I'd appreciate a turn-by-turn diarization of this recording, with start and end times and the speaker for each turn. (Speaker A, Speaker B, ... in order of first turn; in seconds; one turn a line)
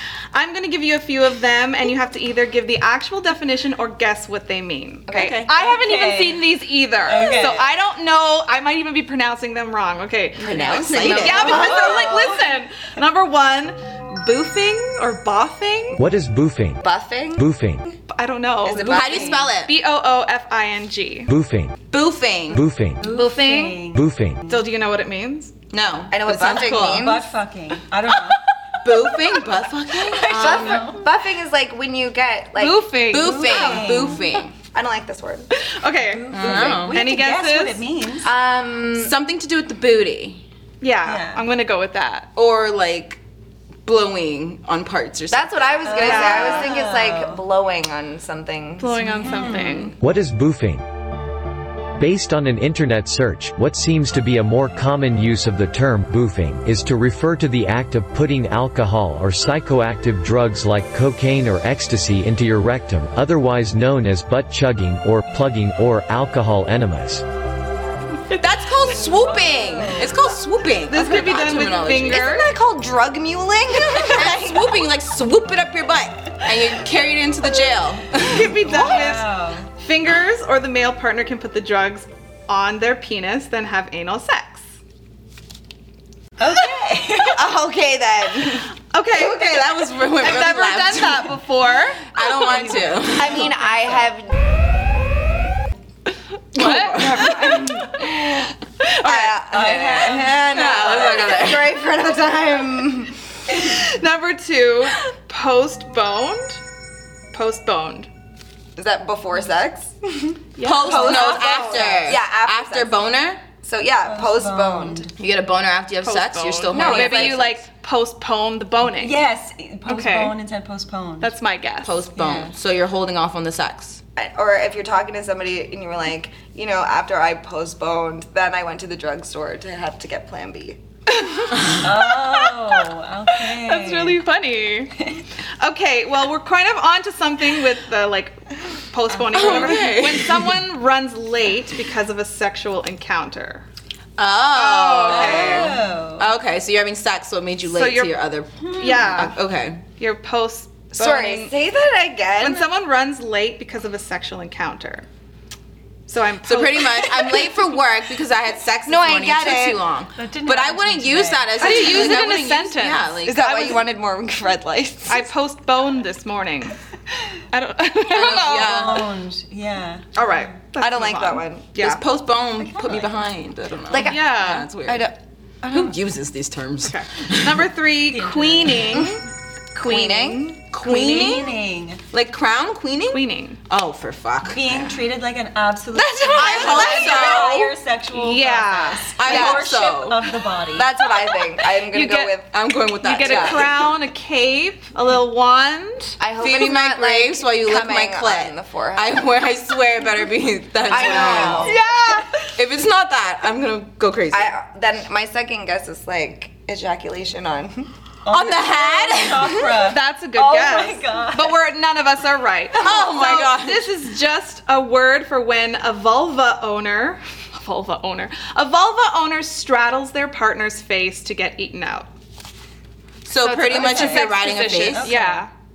Speaker A: 0.3-16.0
Speaker B: 5.1-5.5
Speaker C: 5.5-6.5
Speaker C: 7.0-7.7
Speaker D: 10.4-12.0
Speaker B: 10.4-12.2
Speaker C: 10.5-12.4
Speaker E: 15.9-16.8
Speaker B: 16.8-17.5
Speaker E: 17.3-17.8
Speaker A: 18.1-21.3
Speaker B: 18.6-19.5
Speaker D: 18.7-19.7
Speaker E: 21.3-21.8
Speaker D: 21.9-22.6
Speaker E: 22.5-23.1
Speaker C: 23.0-24.7
Speaker A: 23.0-23.8
Speaker E: 23.9-24.4
Speaker A: 24.5-25.5
Speaker D: 25.7-27.1
Speaker B: 26.1-27.2
Speaker C: 26.8-28.4
Speaker D: 28.8-30.9
Speaker C: 30.1-31.0
Speaker B: 30.3-32.8
Speaker A: 32.5-34.3
Speaker D: 33.1-34.5
Speaker C: 33.1-34.2
Speaker B: 34.7-35.5
Speaker A: 35.5-37.8
Speaker C: 36.0-38.3
Speaker D: 36.3-37.0
Speaker B: 38.2-39.1
Speaker D: 38.9-40.4
Speaker A: 40.8-42.3
Speaker C: 41.0-41.5
Speaker D: 42.4-43.2
Speaker D: 43.8-46.1
Speaker B: 45.3-49.4
Speaker C: 45.8-47.4
Speaker A: 46.0-46.7
Speaker A: 48.8-50.0
Speaker C: 49.0-49.9
Speaker E: 50.0-50.8
Speaker E: 52.0-67.2
Speaker D: 68.3-72.2
Speaker C: 69.1-70.2
Speaker A: 70.9-72.5
Speaker B: 71.9-74.8
Speaker D: 74.0-78.6
Speaker A: 78.1-84.6
Speaker C: 78.5-79.7
Speaker C: 86.4-87.5
Speaker B: 87.3-89.2
Speaker A: 88.9-92.6
Speaker D: 89.3-91.3
Speaker D: 92.1-93.5
Speaker C: 92.6-94.0
Speaker B: 93.1-94.5
Speaker D: 96.5-97.6
Speaker A: 96.5-101.2
Speaker B: 96.6-98.5
Speaker B: 99.0-103.1
Speaker C: 99.5-101.2
Speaker D: 100.5-101.7
Speaker A: 103.6-106.6
Speaker A: 107.3-108.1
Speaker B: 108.8-113.1
Speaker A: 110.6-111.2
Speaker D: 110.6-113.4
Speaker C: 110.9-112.1
Speaker B: 113.6-115.1
Speaker C: 114.0-115.1
Speaker D: 115.2-117.6
Speaker A: 116.0-119.2
Speaker B: 116.7-117.4
Speaker C: 118.8-121.3
Speaker A: 119.9-120.3
Speaker A: 121.2-122.0
Speaker D: 121.8-124.0
Speaker C: 122.2-122.5
Speaker B: 124.2-130.8
Speaker A: 131.1-134.9
Speaker C: 131.8-134.2
Speaker A: 135.6-143.6
Speaker C: 139.1-139.9
Speaker D: 139.3-140.6
Speaker D: 144.2-149.8
Speaker A: 144.5-145.7
Speaker C: 145.1-146.3
Speaker A: 147.6-148.2
Speaker A: 148.7-149.3
Speaker A: 150.0-151.5
Speaker B: 151.0-152.7
Speaker A: 152.4-155.1
Speaker A: 156.1-157.2
Speaker D: 156.4-163.8
Speaker B: 158.8-159.8
Speaker C: 160.1-162.2
Speaker A: 161.6-163.1
Speaker B: 163.2-165.3
Speaker A: 165.1-166.8
Speaker A: 167.5-169.0
Speaker D: 168.1-169.1
Speaker C: 168.2-170.5
Speaker A: 170.1-172.0
Speaker B: 170.8-171.8
Speaker D: 171.8-175.1
Speaker C: 172.6-173.3
Speaker B: 173.9-175.9
Speaker A: 174.0-174.7
Speaker D: 175.7-177.7
Speaker A: 176.8-181.4
Speaker C: 178.1-179.1
Speaker B: 179.8-180.4
Speaker D: 180.7-181.6
Speaker C: 180.8-182.0
Speaker D: 182.1-185.0
Speaker A: 183.1-183.6
Speaker C: 184.4-190.9
Speaker B: 185.9-187.6
Speaker D: 186.3-187.7
Speaker A: 186.4-187.3
Speaker A: 188.1-189.1
Speaker D: 189.2-190.2
Speaker B: 189.2-189.8
Speaker B: 190.7-192.5
Speaker A: 191.8-192.3
Speaker D: 192.5-193.9
Speaker A: 193.0-196.2
Speaker B: 193.2-193.6
Speaker B: 196.2-199.2
Speaker D: 196.4-201.8
Speaker B: 200.8-201.8
Speaker A: 200.9-202.3
Speaker C: 201.2-201.7
Speaker D: 202.6-204.5
Speaker B: 204.3-207.9
Speaker C: 208.2-211.5
Speaker D: 208.3-209.8
Speaker A: 209.9-222.1
Speaker D: 212.8-213.9
Speaker D: 223.2-225.1
Speaker A: 223.4-225.5
Speaker C: 223.7-225.4